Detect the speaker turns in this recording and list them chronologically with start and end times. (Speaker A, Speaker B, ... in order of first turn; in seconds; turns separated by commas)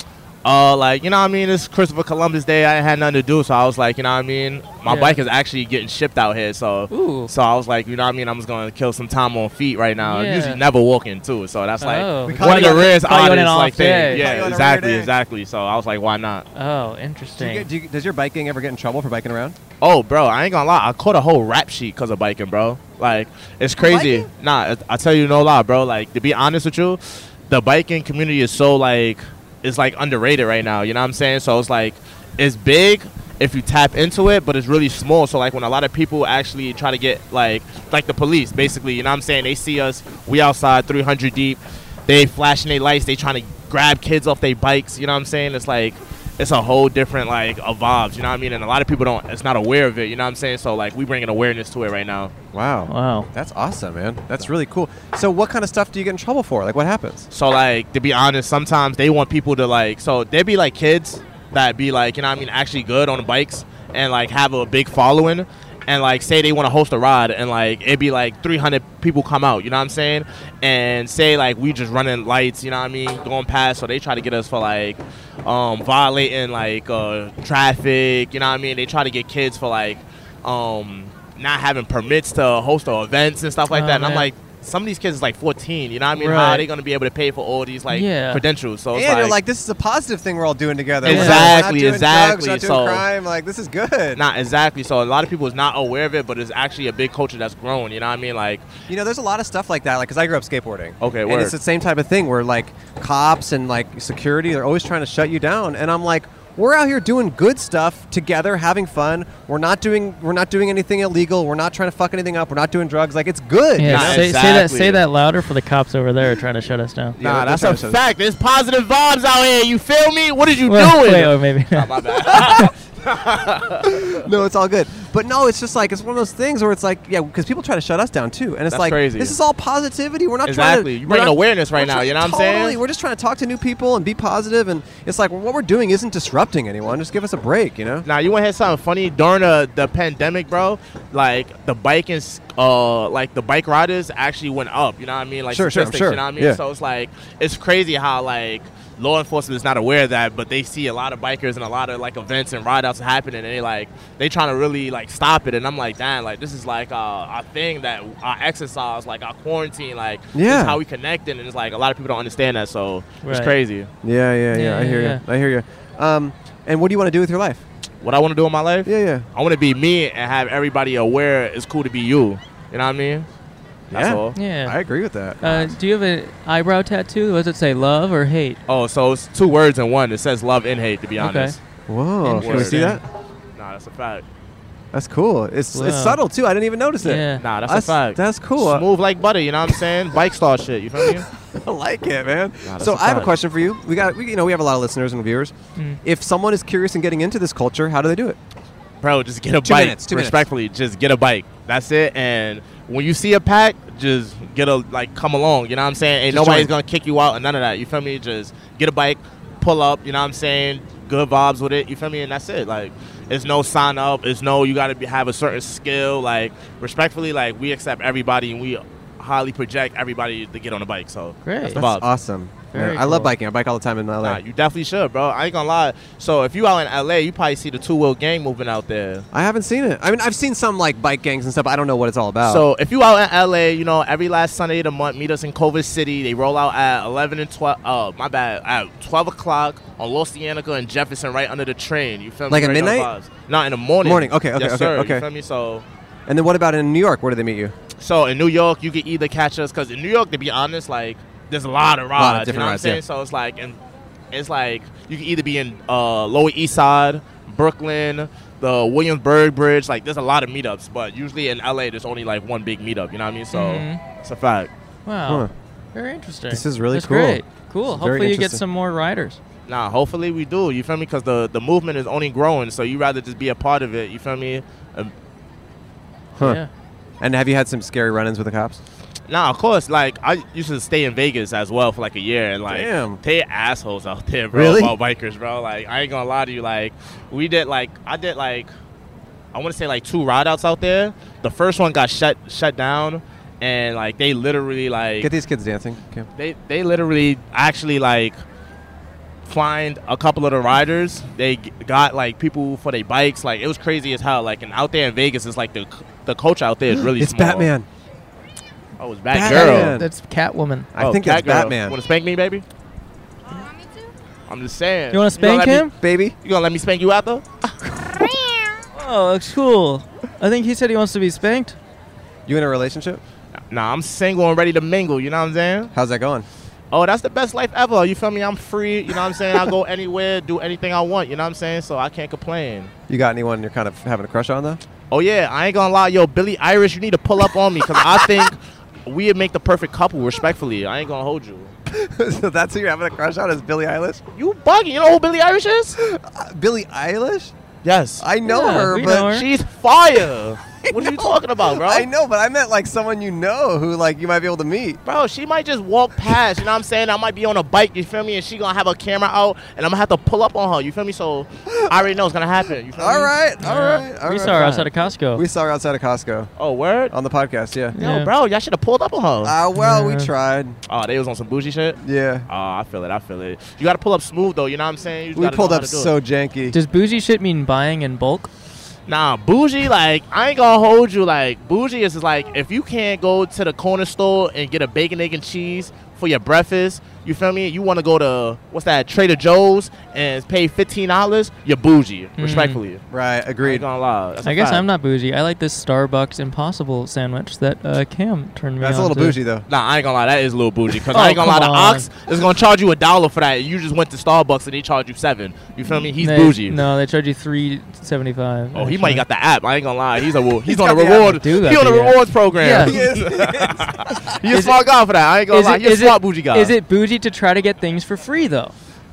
Speaker A: 0.4-16.4, Speaker B: 4.8-5.2, Speaker B: 6.9-7.3, Speaker B: 10.0-10.6, Speaker B: 11.8-14.3, Speaker C: 12.3-13.1, Speaker C: 14.1-15.1, Speaker B: 16.5-17.7, Speaker C: 17.4-19.6, Speaker A: 19.8-52.3, Speaker C: 23.8-24.3, Speaker C: 52.5-57.3, Speaker B: 52.9-53.3, Speaker A: 57.3-89.4, Speaker B: 83.7-84.3, Speaker B: 86.2-86.7, Speaker B: 87.9-88.4, Speaker C: 88.9-94.2, Speaker A: 91.0-93.0, Speaker B: 91.0-91.5, Speaker A: 94.2-98.7, Speaker C: 98.9-114.2, Speaker A: 101.0-101.5, Speaker B: 113.8-117.2, Speaker A: 113.9-115.0, Speaker A: 117.2-124.2, Speaker C: 117.2-118.0, Speaker B: 120.7-122.7, Speaker C: 122.3-122.7, Speaker C: 123.8-138.1, Speaker A: 128.7-129.4, Speaker A: 130.5-132.8, Speaker A: 138.1-163.9, Speaker C: 145.5-146.6, Speaker C: 160.3-160.8, Speaker B: 163.2-163.6, Speaker C: 164.0-167.7, Speaker B: 164.5-165.2, Speaker A: 168.0-173.3, Speaker C: 168.9-169.3, Speaker A: 173.9-174.3, Speaker C: 173.9-175.8, Speaker B: 174.3-174.8, Speaker B: 175.4-178.6, Speaker A: 178.7-181.6, Speaker B: 181.2-181.6, Speaker C: 181.9-183.0, Speaker B: 182.2-183.0, Speaker A: 182.3-183.0, Speaker A: 183.6-184.2, Speaker C: 184.9-188.9, Speaker B: 185.7-186.2, Speaker B: 187.0-187.4, Speaker A: 187.4-191.3, Speaker C: 191.0-198.4, Speaker A: 192.7-193.3, Speaker A: 199.0-222.1, Speaker C: 199.6-200.5, Speaker C: 206.3-206.7, Speaker B: 221.4-221.8, Speaker C: 221.7-224.4, Speaker B: 222.7-223.3, Speaker A: 224.2-229.3, Speaker C: 229.3-232.7, Speaker A: 232.4-245.9, Speaker C: 242.5-243.1, Speaker C: 244.0-245.3, Speaker C: 246.3-247.7, Speaker A: 248.0-253.8, Speaker C: 252.2-253.0, Speaker A: 254.3-264.7, Speaker B: 263.5-264.0, Speaker B: 265.1-269.4, Speaker C: 265.3-265.5, Speaker C: 266.5-268.6, Speaker A: 269.7-275.1, Speaker B: 276.4-276.7, Speaker C: 277.2-278.8, Speaker A: 279.3-288.7, Speaker C: 282.7-283.2, Speaker C: 284.5-285.0, Speaker A: 289.5-295.3, Speaker C: 295.2-296.3, Speaker A: 296.4-298.4, Speaker A: 299.4-307.7, Speaker C: 306.9-307.9, Speaker A: 309.0-310.0, Speaker C: 309.3-310.1, Speaker B: 309.4-310.9, Speaker C: 310.9-312.0, Speaker A: 311.0-312.6, Speaker A: 314.5-317.5, Speaker B: 315.1-315.9, Speaker C: 315.5-316.4, Speaker B: 318.9-321.8, Speaker C: 322.5-323.2, Speaker A: 323.7-325.9, Speaker C: 325.9-326.5, Speaker A: 326.9-332.9, Speaker C: 333.1-334.8, Speaker A: 335.1-341.7, Speaker C: 337.8-338.5, Speaker C: 341.9-344.2, Speaker A: 344.4-346.0, Speaker C: 346.0-347.5, Speaker A: 347.8-348.2, Speaker C: 348.2-349.3, Speaker B: 348.4-349.5, Speaker A: 349.0-352.1, Speaker C: 350.8-355.0, Speaker A: 355.1-363.3, Speaker C: 361.7-362.0, Speaker C: 362.9-366.5, Speaker B: 363.6-365.4, Speaker A: 366.6-367.1, Speaker C: 367.1-368.0, Speaker B: 367.9-368.3, Speaker A: 368.0-369.6, Speaker C: 369.4-370.8, Speaker B: 369.8-370.3, Speaker A: 370.9-376.1, Speaker C: 372.0-372.5, Speaker C: 375.4-376.8, Speaker B: 376.7-378.5, Speaker A: 379.1-393.0, Speaker B: 392.4-392.8, Speaker C: 393.1-393.9, Speaker A: 393.6-394.9, Speaker B: 394.4-399.4, Speaker C: 398.8-399.7, Speaker A: 399.7-406.8, Speaker B: 401.1-402.1, Speaker B: 406.2-409.2, Speaker A: 408.7-416.8, Speaker C: 410.6-411.4, Speaker B: 411.2-413.0, Speaker C: 412.8-414.5, Speaker B: 414.5-414.9, Speaker B: 415.5-418.8